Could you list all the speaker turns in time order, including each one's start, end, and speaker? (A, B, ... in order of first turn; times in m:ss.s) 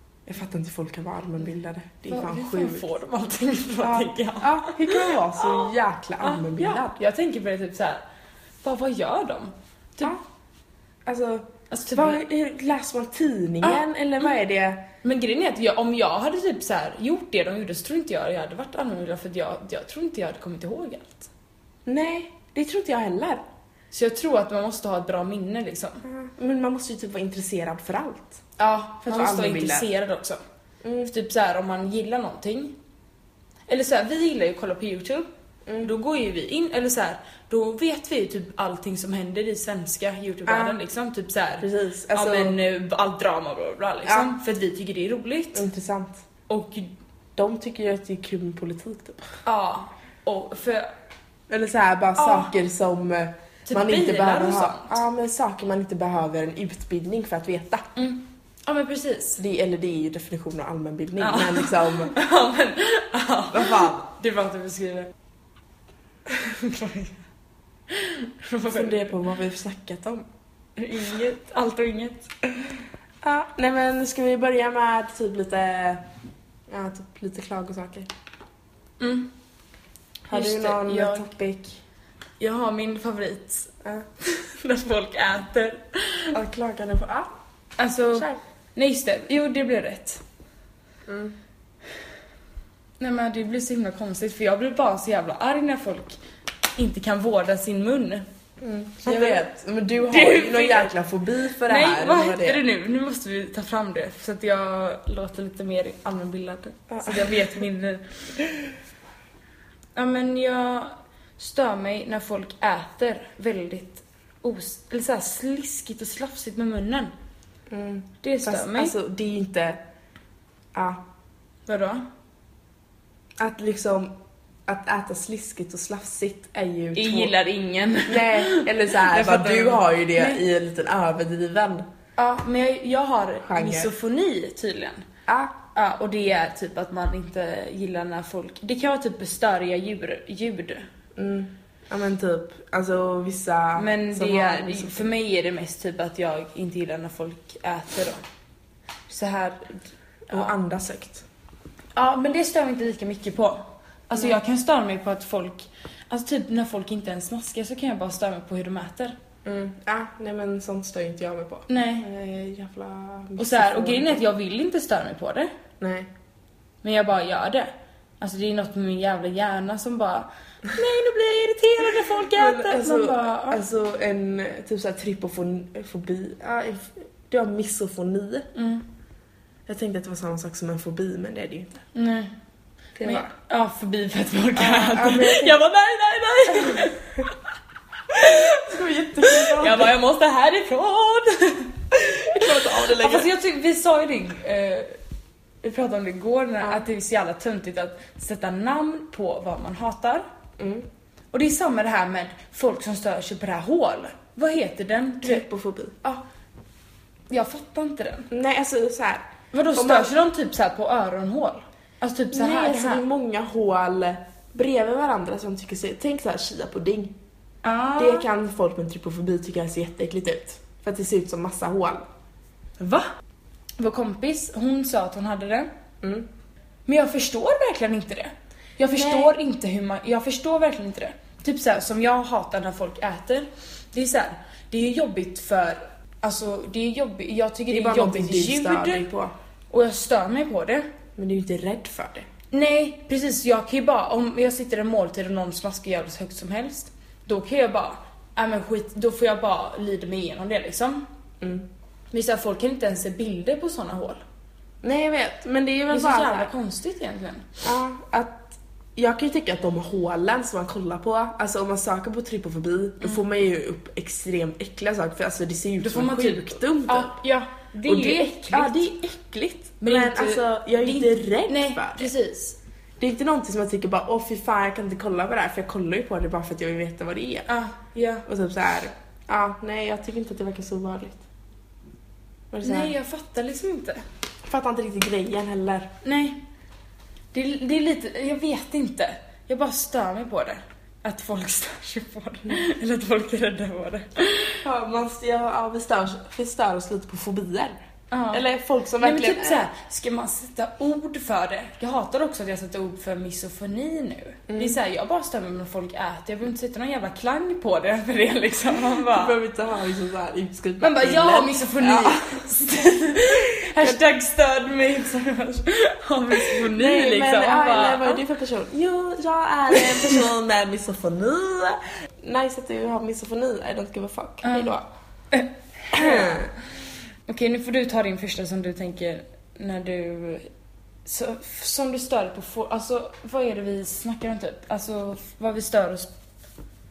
0:00.2-0:02.9 A
0:02.1-0:08.0 B
0:03.8-0:07.0 A
0:08.6-0:10.2 B
0:11.0-0:14.9 A
0:11.7-0:12.2 B
0:15.0-0:21.3 B
0:21.8-0:23.4 A
0:23.9-0:26.0 B
0:26.0-0:28.4 A
0:28.6-0:30.4 B
0:29.0-0:29.9 A
0:30.8-0:31.1 A
0:31.0-0:32.7 B
0:33.7-0:35.3 B
0:35.6-0:35.9 A
0:35.8-0:45.7 B
0:40.4-0:40.8 A
0:41.6-0:42.6 A
0:44.0-0:44.3 A
0:45.5-0:46.2 A
0:46.5-0:46.9 B
0:47.4-0:49.3 A
0:49.4-0:50.9 B
0:51.5-0:57.9 A
0:52.2-0:52.5 B
0:53.6-0:55.0 B
0:58.0-0:59.4 B
0:59.4-1:02.1 A
1:01.2-1:05.1 B
1:03.5-1:04.0 A
1:06.3-1:07.2 B
1:07.9-1:09.1 B
1:08.7-1:10.3 A
1:10.8-1:12.3 B
1:13.2-1:16.0 A
1:16.7-1:18.1 A
1:19.0-1:19.3 B
1:20.3-1:21.8 A
1:20.3-1:21.3 B
1:22.4-1:26.4 B
1:26.3-1:27.3 A
1:27.8-1:30.2 B
1:28.1-1:28.4 A
1:31.1-1:31.4 A
1:33.0-1:36.2 B
1:36.8-1:38.2 B
1:38.6-1:42.6 A
1:39.0-1:39.4 B
1:40.0-1:40.9 B
1:41.6-1:48.2 B
1:46.9-1:47.6 A
1:48.4-1:48.7 A
1:50.0-1:57.1 B
1:57.7-1:59.8 A
1:58.2-1:58.9 B
2:00.7-2:01.0 A
2:01.7-2:02.0 B
2:03.4-2:04.1 A
2:04.7-2:07.3 A
2:07.0-2:10.4 B
2:08.0-2:11.8 A
2:12.2-2:15.1 B
2:13.4-2:13.9 A
2:15.3-2:15.6 A
2:15.7-2:20.9 B
2:21.2-2:25.1 A
2:23.8-2:28.2 B
2:29.1-2:30.5 B
2:30.3-2:31.2 A
2:31.9-2:39.1 B
2:39.4-2:44.2 A
2:41.7-2:42.1 B
2:43.4-2:45.5 B
2:45.8-2:46.1 A
2:46.8-2:53.6 B
2:52.2-2:58.5 A
2:58.5-2:58.8 B
2:59.7-3:01.8 A
3:01.9-3:02.3 B
3:03.0-3:03.3 A
3:03.0-3:07.3 B
3:04.5-3:05.6 A
3:06.6-3:06.9 A
3:08.1-3:15.0 B
3:08.1-3:09.9 A
3:11.9-3:13.3 A
3:15.6-3:20.2 B
3:20.6-3:20.9 A
3:21.3-3:25.4 B
3:25.2-3:26.1 A
3:27.3-3:28.3 B
3:28.3-3:30.1 A
3:29.5-3:33.0 B
3:32.3-3:37.2 A
3:37.6-3:38.3 B
3:38.0-3:42.0 A
3:42.8-3:43.1 B
3:43.8-3:45.7 B
3:46.0-3:46.3 A
3:46.9-3:59.1 B
3:48.9-3:49.3 A
3:57.7-3:59.3 A
3:59.7-4:00.9 B
4:01.2-4:02.3 A
4:02.5-4:11.1 B
4:11.4-4:11.7 A
4:12.1-4:14.2 B
4:14.8-4:16.5 A
4:15.9-4:17.6 B
4:17.6-4:27.2 A
4:25.8-4:28.9 B
4:27.8-4:32.1 A
4:29.8-4:32.6 B
4:33.0-4:37.5 A
4:37.5-4:38.2 B
4:38.2-4:41.2 A
4:42.5-4:42.9 A
4:42.6-4:44.0 B
4:44.4-4:45.9 A
4:46.0-4:46.4 B
4:47.3-4:54.6 B
4:54.6-4:57.8 A
4:58.1-4:58.4 B
4:58.3-4:59.7 A
4:59.0-5:09.4 B
5:04.5-5:04.8 A
5:08.9-5:14.0 A
5:10.8-5:18.2 B
5:16.4-5:24.9 A
5:19.7-5:20.2 B
5:24.4-5:24.7 B
5:25.3-5:26.5 B
5:25.9-5:26.5 A
5:27.3-5:30.5 B
5:31.0-5:36.1 B